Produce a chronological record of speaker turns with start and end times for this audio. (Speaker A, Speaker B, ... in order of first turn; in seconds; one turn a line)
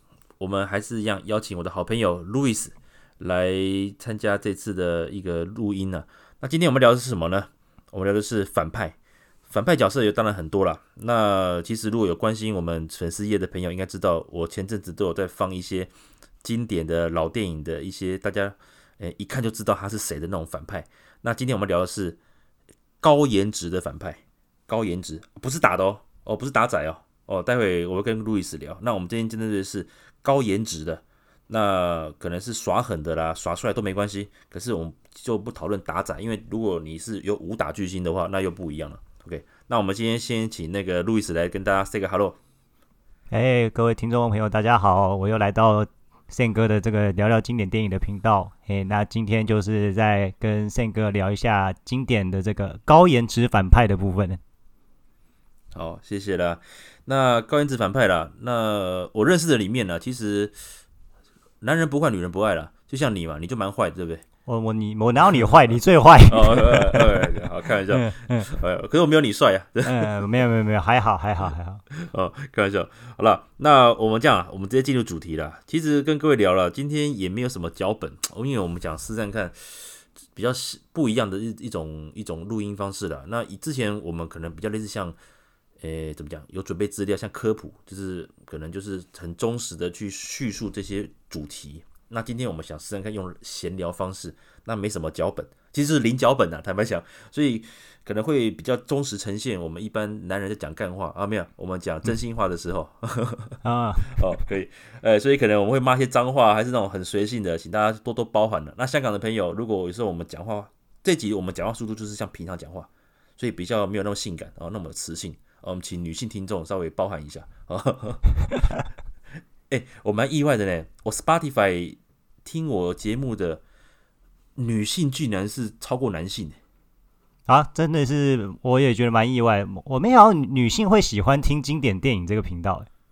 Speaker A: 0.4-9.0
Speaker A: 9.5-15.9
Speaker A: 16.4-22.2
Speaker A: 23.0-42.4
Speaker B: 43.3-54.4
Speaker A: 55.7-60.6
Speaker A: 61.6-64.2
Speaker B: 64.5-68.5
Speaker A: 66.3-70.1
Speaker B: 69.8-71.8
Speaker A: 71.9-85.2
Speaker A: 85.8-118.2
Speaker B: 103.6-104.2
Speaker A: 119.7-123.6
Speaker A: 124.6-126.6
Speaker B: 127.5-132.9